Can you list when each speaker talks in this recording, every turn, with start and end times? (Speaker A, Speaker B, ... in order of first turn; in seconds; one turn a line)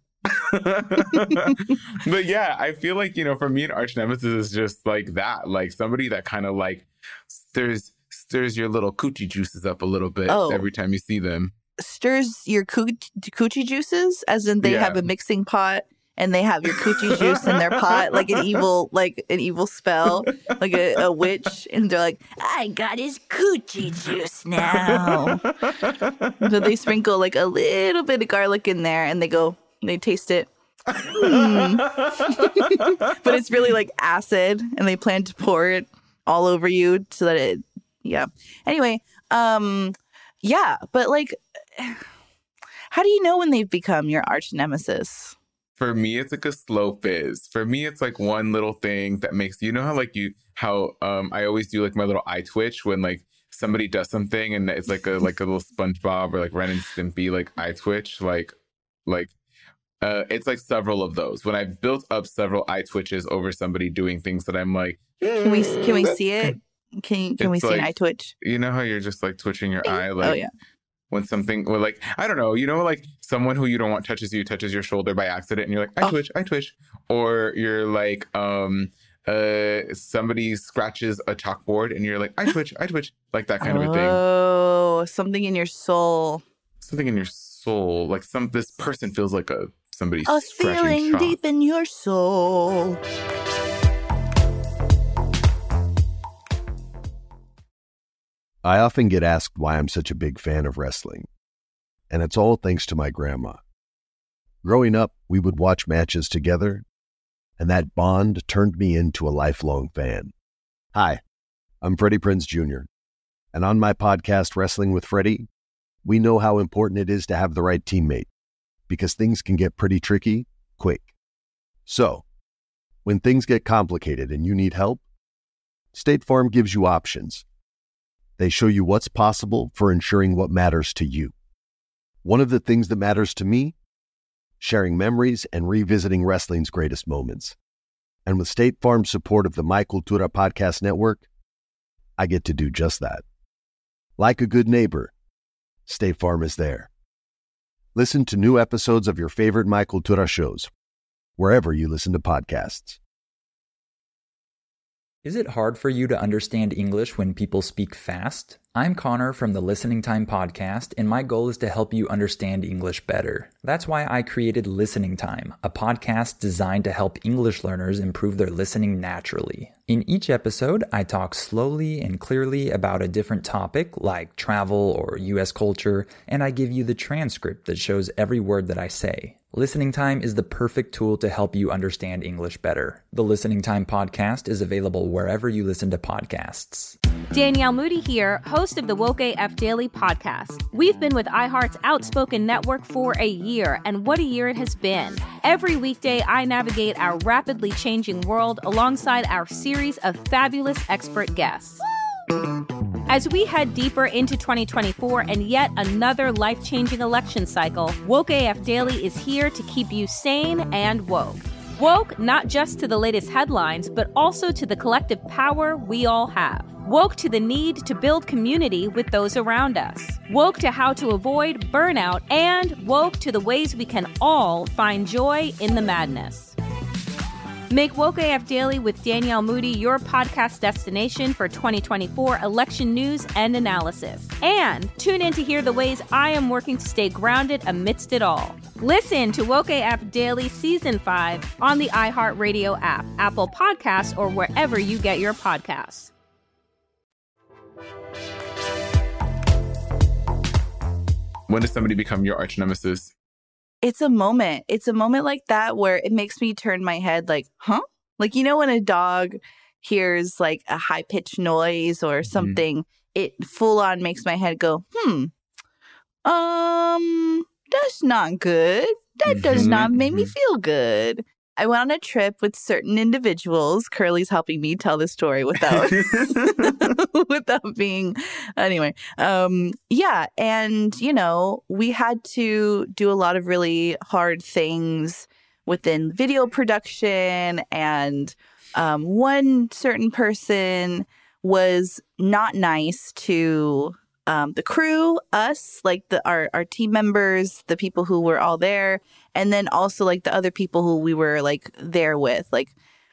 Speaker A: 0.2-11.5
Speaker B: 1.0-1.5
Speaker B: 10.3-10.7
Speaker B: 11.8-25.4
Speaker A: 14.6-15.0
Speaker A: 16.7-18.6
Speaker A: 20.7-21.3
Speaker A: 24.7-26.4
Speaker B: 26.4-30.5
Speaker A: 30.9-32.9
Speaker B: 31.1-42.0
Speaker B: 42.9-45.4
Speaker A: 45.8-58.5
Speaker A: 59.0-59.3
Speaker A: 60.0-66.5
Speaker B: 65.4-68.3
Speaker A: 67.4-70.4
Speaker B: 69.8-70.5
Speaker A: 71.1-84.2
Speaker B: 83.6-86.4
Speaker A: 86.8-91.4
Speaker B: 90.2-93.0
Speaker C: 98.6-101.3
Speaker C: 102.1-103.6
Speaker C: 104.6-106.8
Speaker C: 107.6-110.3
Speaker C: 110.9-111.2
Speaker C: 111.8-112.9
Speaker C: 113.5-115.5
Speaker C: 116.0-118.3
Speaker C: 118.9-121.1
Speaker C: 121.8-122.2
Speaker C: 123.0-125.0
Speaker C: 125.9-127.4
Speaker C: 128.4-131.3
Speaker C: 132.2-133.8
Speaker C: 134.6-137.6
Speaker C: 138.2-141.2
Speaker C: 142.2-143.2
Speaker C: 144.2-145.1
Speaker C: 145.8-146.9
Speaker C: 147.9-150.7
Speaker C: 151.4-153.0
Speaker D: 155.2-187.0
Speaker E: 187.3-201.8
Speaker E: 203.1-226.6
Speaker E: 227.7-246.1
Speaker A: 251.5-253.1
Speaker B: 253.8-265.3
Speaker A: 262.3-262.6
Speaker B: 266.2-302.7
Speaker A: 269.3-270.3
Speaker A: 275.6-276.8